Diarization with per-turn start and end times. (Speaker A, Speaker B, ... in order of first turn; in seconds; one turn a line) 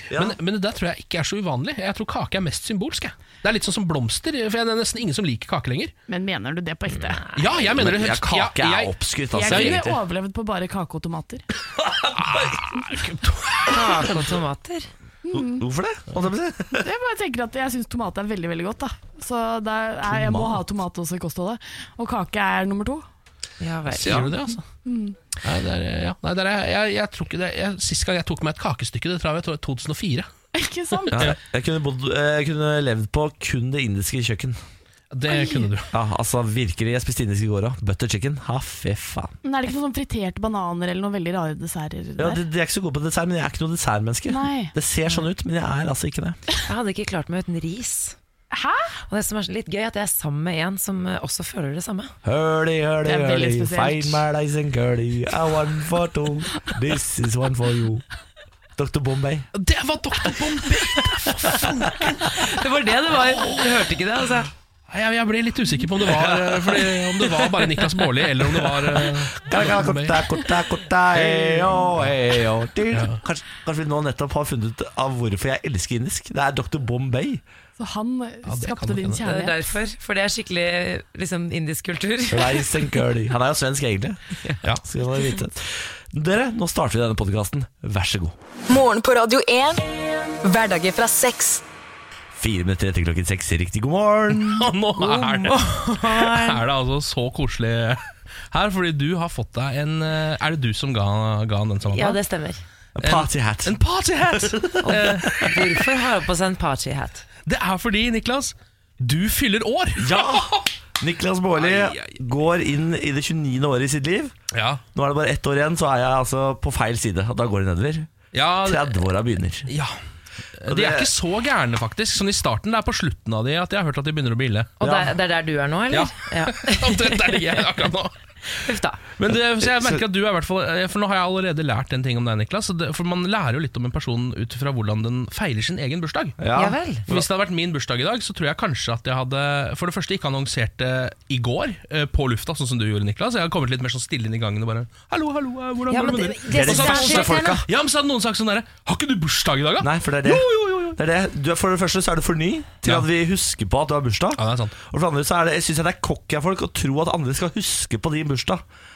Speaker A: 0.1-0.3
Speaker B: 0.1-5.9
Speaker C: 6.1-7.2
Speaker D: 6.9-7.5
Speaker B: 7.3-8.9
Speaker A: 7.6-10.0
Speaker C: 9.3-11.4
Speaker B: 9.5-9.9
Speaker A: 11.8-12.6
Speaker B: 12.2-13.7
Speaker D: 13.7-14.9
Speaker A: 13.7-14.2
Speaker C: 15.2-15.6
Speaker A: 15.3-16.9
Speaker C: 16.8-23.0
Speaker A: 20.1-20.6
Speaker D: 23.6-24.2
Speaker B: 23.9-24.6
Speaker A: 24.0-24.3
Speaker C: 24.8-25.2
Speaker B: 25.4-30.3
Speaker C: 30.5-31.3
Speaker A: 31.1-34.6
Speaker B: 35.1-35.9
Speaker C: 35.3-35.7
Speaker A: 35.9-39.3
Speaker C: 39.4-42.4
Speaker A: 42.2-46.4
Speaker C: 44.3-44.7
Speaker D: 46.6-48.1
Speaker C: 48.5-48.9
Speaker D: 49.1-52.1
Speaker A: 52.2-58.0
Speaker C: 53.0-54.2
Speaker A: 58.8-59.5
Speaker B: 59.5-62.3
Speaker D: 62.3-64.5
Speaker B: 64.9-70.3
Speaker A: 66.0-67.1
Speaker A: 68.5-77.4
Speaker B: 71.1-72.1
Speaker B: 72.9-73.2
Speaker C: 77.8-79.6
Speaker B: 78.4-79.2
Speaker D: 79.2-82.8
Speaker A: 82.3-88.3
Speaker E: 88.7-89.8
Speaker E: 90.4-91.6
Speaker A: 92.3-94.7
Speaker B: 94.4-102.2
Speaker D: 95.0-96.6
Speaker D: 101.9-102.6
Speaker A: 103.0-105.5
Speaker B: 103.0-105.5
Speaker D: 104.8-107.2
Speaker B: 107.5-110.7
Speaker A: 110.0-114.3
Speaker B: 111.6-112.1
Speaker B: 114.5-114.8
Speaker A: 114.9-119.7
Speaker B: 118.3-119.0
Speaker B: 119.7-120.0
Speaker B: 120.6-124.8
Speaker A: 120.7-121.1
Speaker D: 124.8-127.6
Speaker A: 124.8-125.1
Speaker B: 125.9-128.1
Speaker D: 128.5-129.0
Speaker B: 129.2-136.4
Speaker A: 129.6-130.0
Speaker A: 136.4-137.2
Speaker D: 136.5-137.0
Speaker B: 137.1-151.0
Speaker D: 145.9-147.6
Speaker A: 146.5-147.7
Speaker A: 149.8-158.6
Speaker B: 152.8-153.1
Speaker B: 154.3-154.8